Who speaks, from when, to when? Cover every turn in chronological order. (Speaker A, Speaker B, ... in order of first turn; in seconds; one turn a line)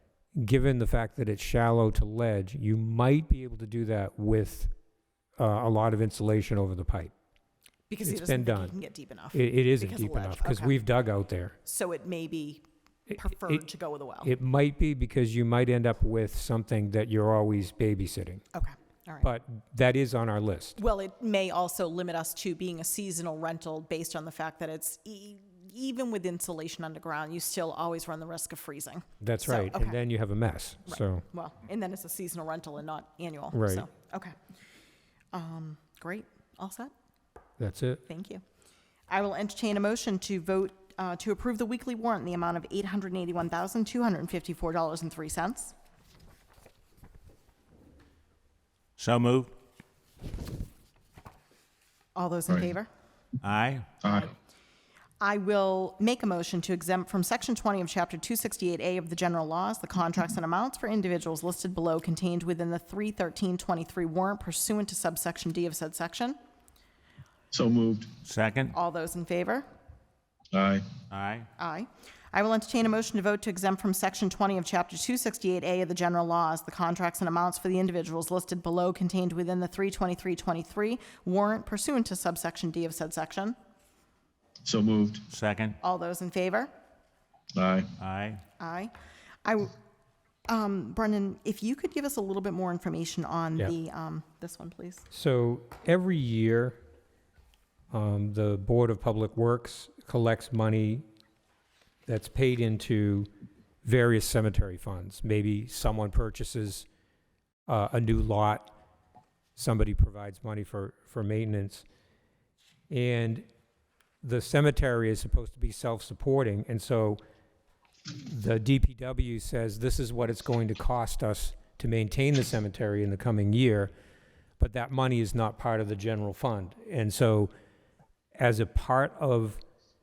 Speaker A: 0.3-4.7
Speaker A: 5.4-7.1
Speaker B: 7.9-10.8
Speaker A: 8.0-8.7
Speaker A: 9.3-11.5
Speaker B: 11.6-14.3
Speaker A: 14.2-18.4
Speaker B: 18.5-19.3
Speaker A: 19.2-20.8
Speaker B: 20.8-30.0
Speaker A: 29.2-31.2
Speaker B: 30.9-34.3
Speaker A: 33.5-33.9
Speaker B: 35.3-36.9
Speaker A: 37.6-38.0
Speaker B: 38.1-38.4
Speaker B: 39.1-45.7
Speaker C: 49.0-49.5
Speaker B: 52.1-52.9
Speaker C: 53.4-53.9
Speaker D: 54.0-54.3
Speaker B: 55.2-66.4
Speaker D: 67.5-68.1
Speaker C: 68.2-68.7
Speaker B: 68.7-69.7
Speaker D: 70.5-70.9
Speaker C: 71.1-71.5
Speaker B: 71.6-83.5
Speaker D: 84.6-85.2
Speaker C: 85.3-85.8
Speaker B: 85.8-86.7
Speaker D: 87.5-87.9
Speaker C: 88.0-88.4
Speaker B: 88.6-88.9
Speaker B: 89.4-89.7
Speaker B: 90.5-95.0
Speaker A: 95.1-96.8
Speaker A: 97.9-101.0
Speaker A: 102.0-103.3
Speaker A: 103.8-106.8
Speaker A: 107.7-108.7
Speaker A: 109.5-111.8
Speaker A: 112.9-113.5
Speaker A: 114.2-117.2
Speaker A: 118.1-123.9
Speaker A: 124.6-127.5
Speaker A: 128.3-129.6